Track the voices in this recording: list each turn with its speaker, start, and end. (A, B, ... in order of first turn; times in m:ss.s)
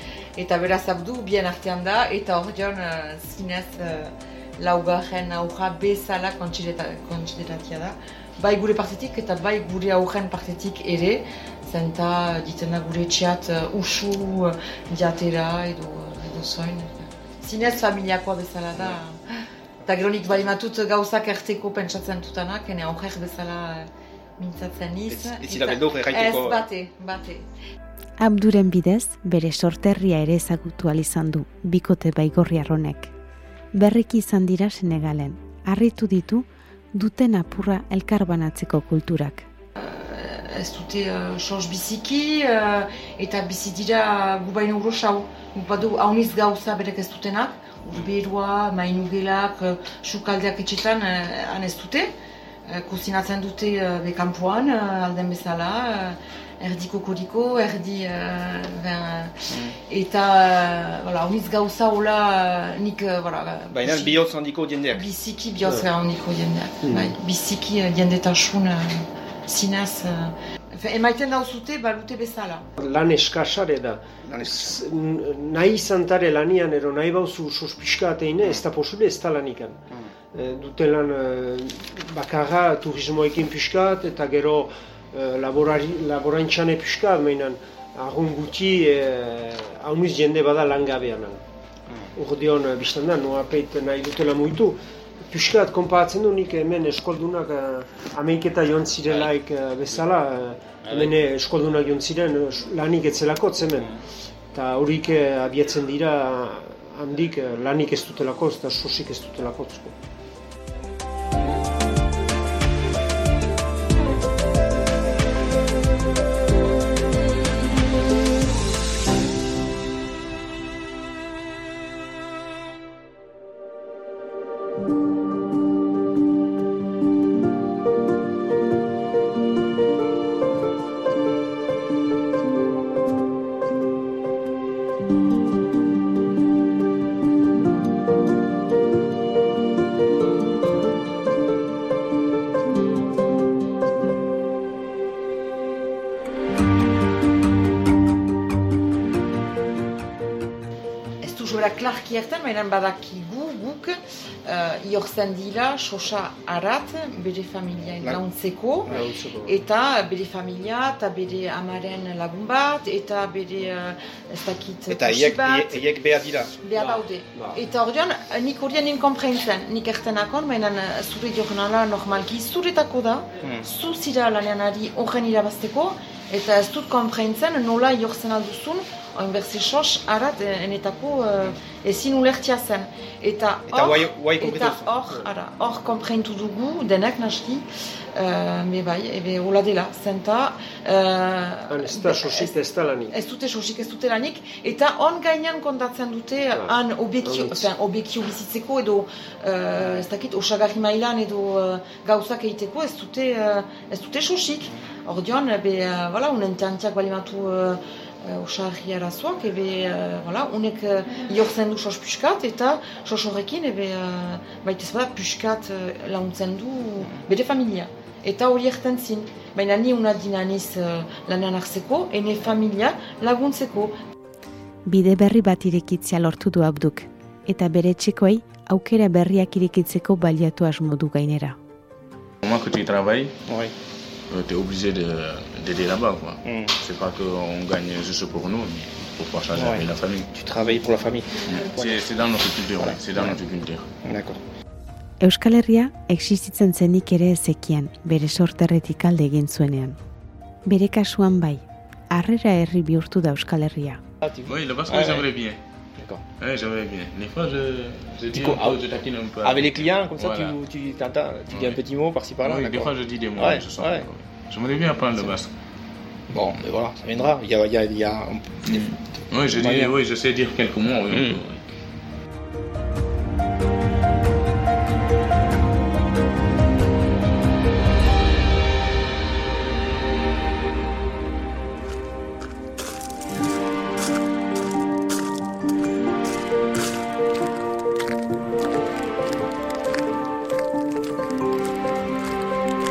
0:00.4-0:19.2 A
0:19.8-0:27.4 A
0:25.1-0:26.6 B
0:28.2-0:33.1 C
0:33.7-0:39.5 C
0:39.8-0:52.1 A
0:52.7-1:04.3 A
0:59.5-0:59.8 B
1:03.7-1:05.1 B
1:04.9-1:12.7 A
1:06.8-1:07.1 D
1:12.8-1:19.8 D
1:14.2-1:14.8 B
1:20.3-1:31.4 D
1:32.1-1:34.8 D
1:35.3-1:43.9 D
1:40.8-1:41.2 B
1:44.5-1:49.9 D
2:31.2-2:45.8 A
2:38.9-2:39.6 D
2:44.9-2:46.5 B
2:46.6-3:12.5 A
2:46.8-2:47.6 D
3:03.7-3:05.0 B
3:11.7-3:13.1 D
3:13.1-3:44.0 A
3:44.8-3:51.6 C
3:52.4-3:53.4 E
3:53.5-3:53.7 B
3:54.3-4:00.3 E
3:56.4-3:56.7 B
3:59.5-4:02.0 B
4:01.4-4:03.9 E
4:02.8-4:03.4 B
4:04.0-4:04.4 B
4:05.2-4:10.0 C
4:10.6-4:14.0 C
4:14.2-4:15.3 B
4:14.4-4:15.6 E
4:16.0-4:16.2 B
4:16.4-4:20.6 E
4:18.3-4:18.8 B
4:19.4-4:24.1 B
4:21.5-4:21.8 E
4:22.4-4:25.5 E
4:26.3-4:29.9 B
4:28.6-4:31.6 E
4:31.1-4:31.4 B